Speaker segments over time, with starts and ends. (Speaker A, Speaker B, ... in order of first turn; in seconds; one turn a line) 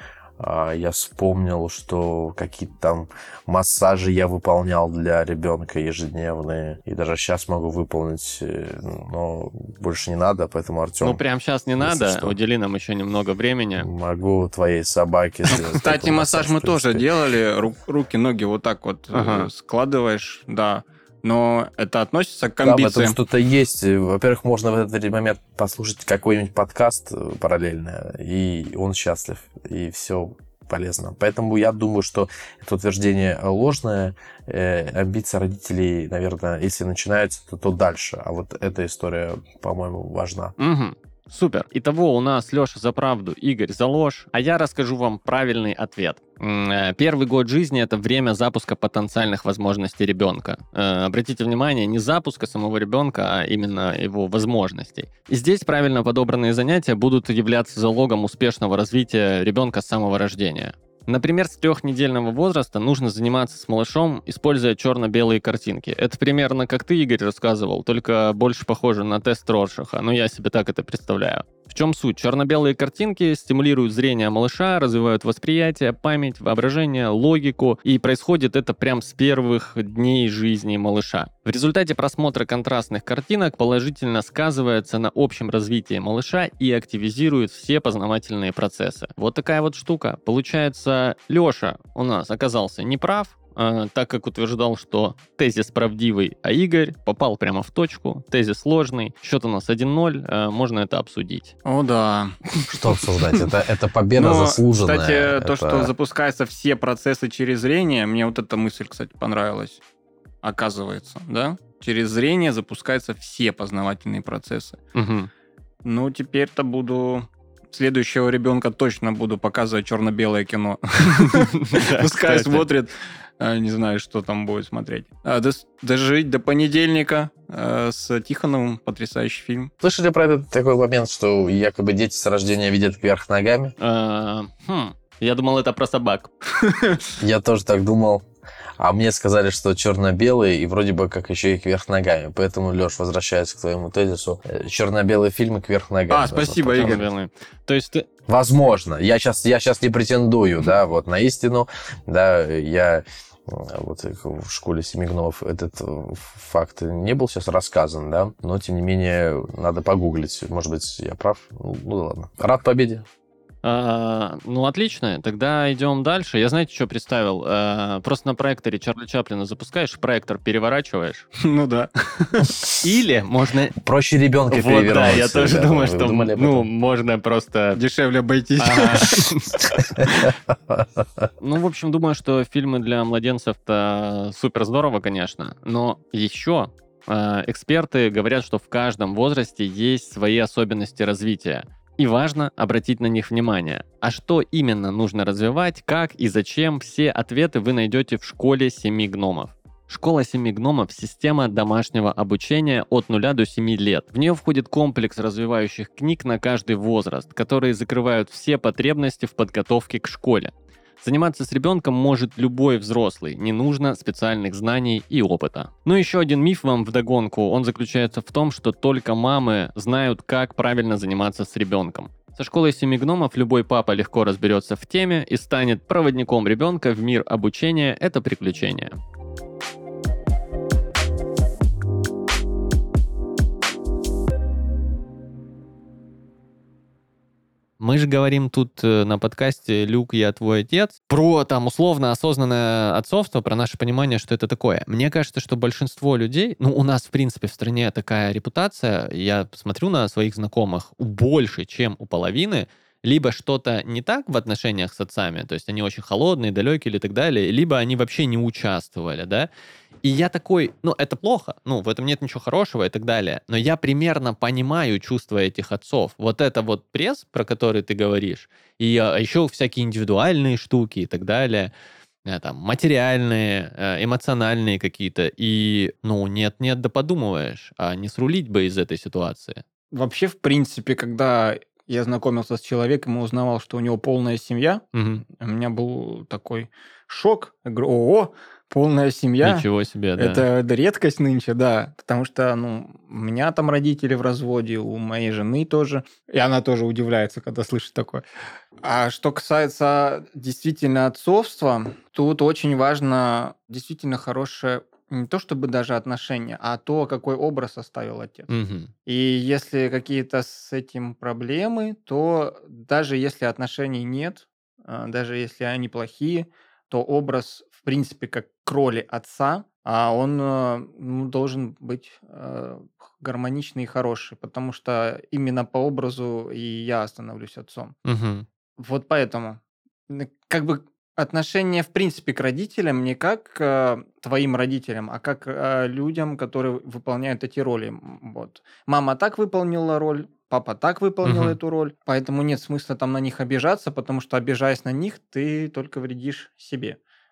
Speaker A: 0.4-11.2
Speaker B: 11.0-13.9
Speaker A: 11.8-12.4
Speaker A: 13.8-17.1
Speaker C: 15.5-23.2
Speaker B: 19.1-19.5
Speaker A: 22.6-40.5
Speaker B: 40.6-101.5
Speaker C: 101.6-103.5
Speaker A: 102.7-105.9
Speaker C: 104.2-109.8
Speaker C: 110.4-114.8
Speaker B: 114.9-115.3
Speaker C: 115.8-129.7
Speaker B: 121.2-122.7
Speaker A: 129.8-133.7
Speaker B: 133.8-136.3
Speaker C: 136.6-137.0
Speaker A: 137.2-138.2
Speaker A: 138.8-147.0
Speaker C: 146.1-147.1
Speaker B: 146.7-148.0
Speaker A: 148.3-163.0
Speaker B: 163.6-171.3
Speaker C: 171.4-172.5
Speaker B: 172.8-173.8
Speaker A: 173.8-176.7
Speaker B: 174.5-177.8
Speaker C: 177.7-180.3
Speaker B: 178.6-179.7
Speaker A: 180.7-181.3
Speaker B: 181.4-228.9
Speaker B: 237.8-259.5
Speaker B: 260.0-271.7
Speaker B: 272.2-279.6
Speaker C: 279.9-289.6
Speaker B: 284.9-285.2
Speaker B: 289.4-290.4
Speaker C: 290.2-298.2
Speaker C: 298.8-308.5
Speaker B: 308.5-308.9
Speaker C: 309.1-327.9
Speaker B: 328.0-328.4
Speaker C: 328.8-347.0
Speaker B: 341.2-341.6